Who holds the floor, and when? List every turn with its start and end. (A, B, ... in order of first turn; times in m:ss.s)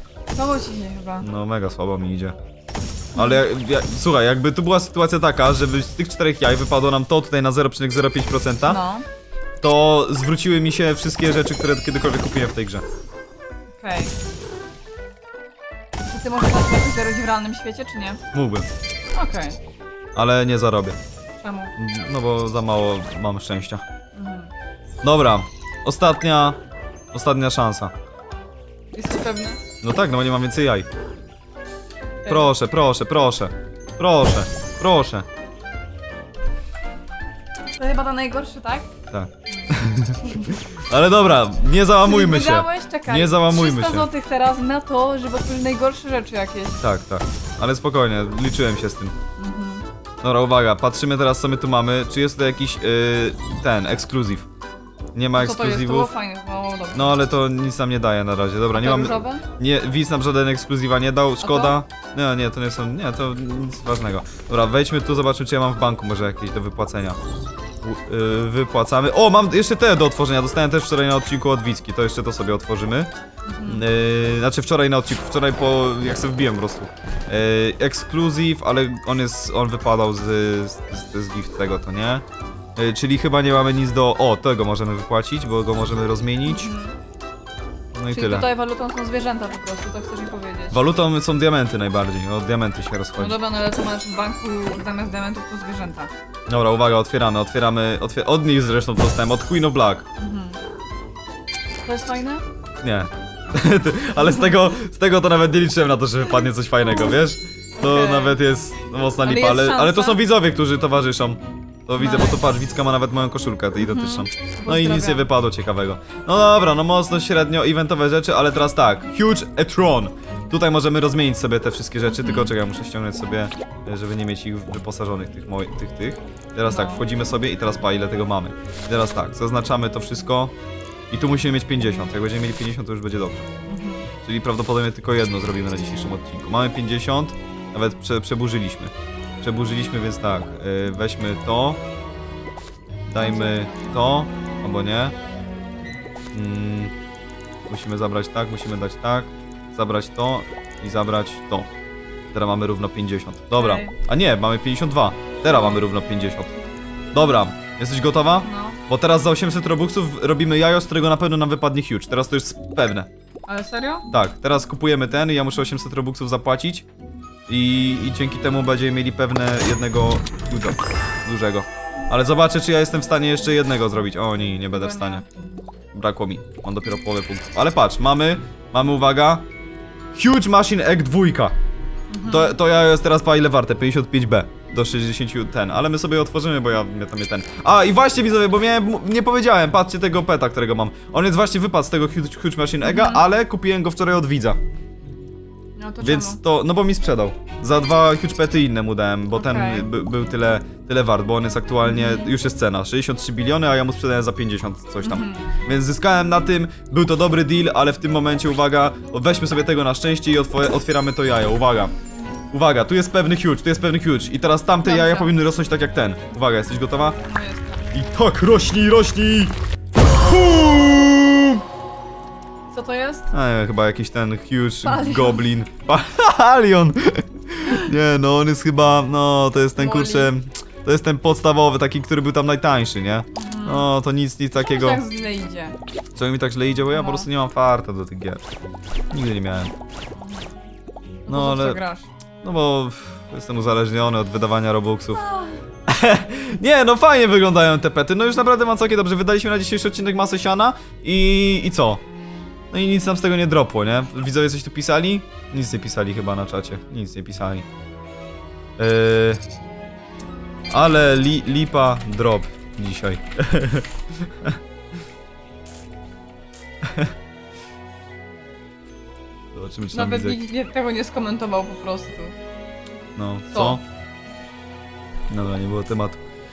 0:00.3-0:01.3 A
0:01.2-0:02.4 B
0:03.1-0:08.8 B
0:03.2-0:03.4 A
0:08.6-0:09.0 A
0:09.6-0:12.8 B
0:13.8-0:14.1 A
0:16.0-0:18.2 A
0:18.3-0:18.7 B
0:19.1-0:19.6 A
0:20.1-0:21.0 B
0:21.4-0:21.7 A
0:21.8-0:23.8 B
0:24.1-0:24.5 A
0:25.0-0:26.6 B
0:27.1-0:27.9 B
0:28.9-0:29.6 A
0:29.8-0:30.9 B
0:32.2-0:32.5 A
0:32.3-0:35.2 B
0:37.7-0:38.9 A
0:39.1-0:44.1 B
0:39.5-0:40.6 A
0:42.0-0:46.8 A
0:46.8-0:49.2 B
0:49.4-0:49.8 A
0:50.2-0:54.5 B
0:55.1-0:56.1 B
0:55.4-0:57.2 A
0:56.9-1:07.2 B
0:58.7-0:59.5 A
1:01.4-1:01.8 A
1:07.8-1:13.1 B
1:13.5-1:13.8 A
1:13.6-1:22.2 B
1:22.8-1:26.7 B
1:26.4-1:27.0 A
1:27.9-1:28.5 B
1:28.1-1:30.8 A
1:30.7-1:33.4 B
1:33.2-1:36.1 A
1:36.5-1:40.0 B
1:40.2-1:40.6 A
1:41.8-1:42.4 A
1:42.8-2:10.5 B
1:44.2-1:44.5 A
1:47.8-1:48.4 A
1:49.2-1:50.2 A
1:52.0-1:52.4 A
1:53.8-1:55.3 A
2:02.1-2:02.5 A
2:06.6-2:07.0 A
2:11.1-2:13.5 B
2:13.7-2:14.1 A
2:14.2-2:21.8 B
2:23.1-2:25.1 B
2:23.2-2:24.0 A
2:26.3-2:26.9 B
2:27.7-2:31.7 B
2:32.3-2:36.5 B
2:33.5-2:33.9 A
2:37.1-2:43.1 B
2:38.4-2:38.8 A
2:43.5-2:44.1 A
2:44.1-2:46.8 B
2:47.5-2:55.2 B
2:54.7-2:55.2 A
2:55.9-2:59.4 B
3:00.1-3:01.5 B
3:02.1-3:02.6 A
3:02.2-3:14.6 B
3:12.8-3:13.2 A
3:15.8-3:16.4 A
3:16.0-3:31.9 B
3:19.3-3:19.9 A
3:21.8-3:22.3 A
3:25.0-3:25.5 A
3:32.5-3:37.2 B
3:34.8-3:35.3 A
3:37.2-3:37.9 A
3:37.9-3:41.6 B
3:42.7-3:43.3 A
3:43.3-3:55.0 B
3:44.8-3:45.5 A
3:49.8-3:50.3 A
3:53.3-3:53.9 A
3:54.6-3:55.8 A
3:56.1-3:58.4 B
3:56.9-3:57.3 A
3:59.1-3:59.7 B
4:00.2-4:00.5 A
4:01.2-4:02.1 A
4:01.3-4:01.8 B
4:02.4-4:05.2 B
4:05.1-4:05.6 A
4:05.9-4:12.0 B
4:12.7-4:17.6 B
4:18.8-4:19.4 B
4:20.7-4:24.6 B
4:26.8-4:27.1 B
4:29.5-4:30.4 B
4:29.9-4:32.3 A
4:33.2-4:33.8 B
4:33.5-4:33.8 A
4:35.3-4:36.2 B